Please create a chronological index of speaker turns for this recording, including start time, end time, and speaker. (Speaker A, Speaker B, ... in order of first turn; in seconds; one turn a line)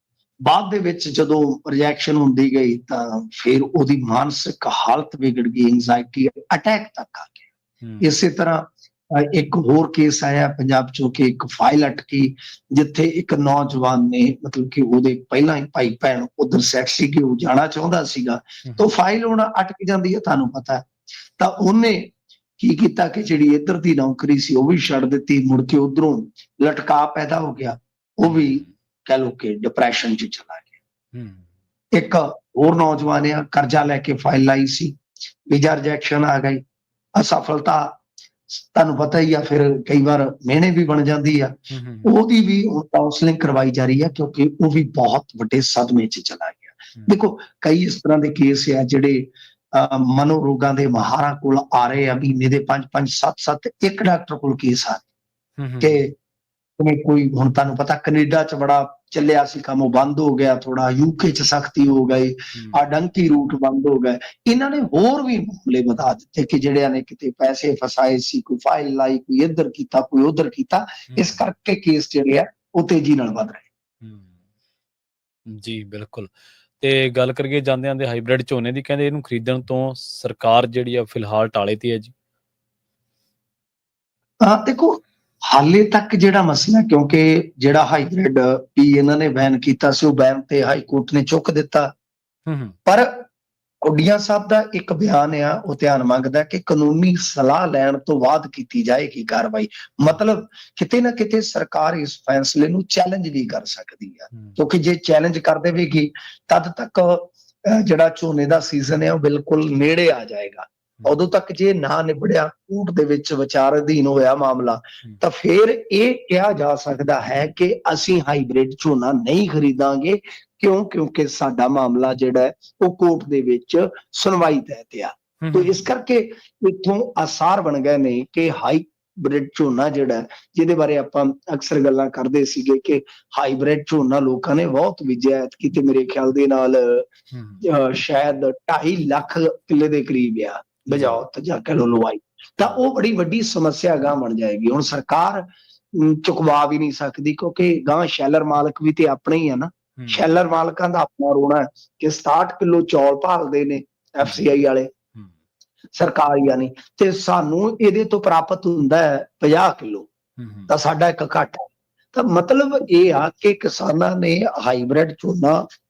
Speaker A: 0.5-7.5
Speaker A: 8.0-30.7
Speaker B: 28.2-28.7
Speaker B: 31.1-31.5
Speaker A: 31.9-35.0
Speaker A: 35.5-36.6
Speaker A: 37.2-38.0
Speaker A: 38.5-55.0
Speaker B: 41.7-42.1
Speaker B: 55.6-56.0
Speaker A: 55.8-56.1
Speaker A: 56.8-73.7
Speaker B: 71.1-71.4
Speaker B: 74.0-74.3
Speaker B: 75.5-82.1
Speaker A: 84.4-91.9
Speaker B: 92.5-92.8
Speaker A: 92.9-93.3
Speaker A: 93.8-137.1
Speaker B: 104.3-104.6
Speaker B: 125.4-125.9
Speaker B: 137.3-137.6
Speaker A: 137.6-154.9
Speaker B: 140.9-141.2
Speaker B: 150.0-150.3
Speaker A: 156.0-160.1
Speaker B: 160.4-160.7
Speaker A: 160.7-165.6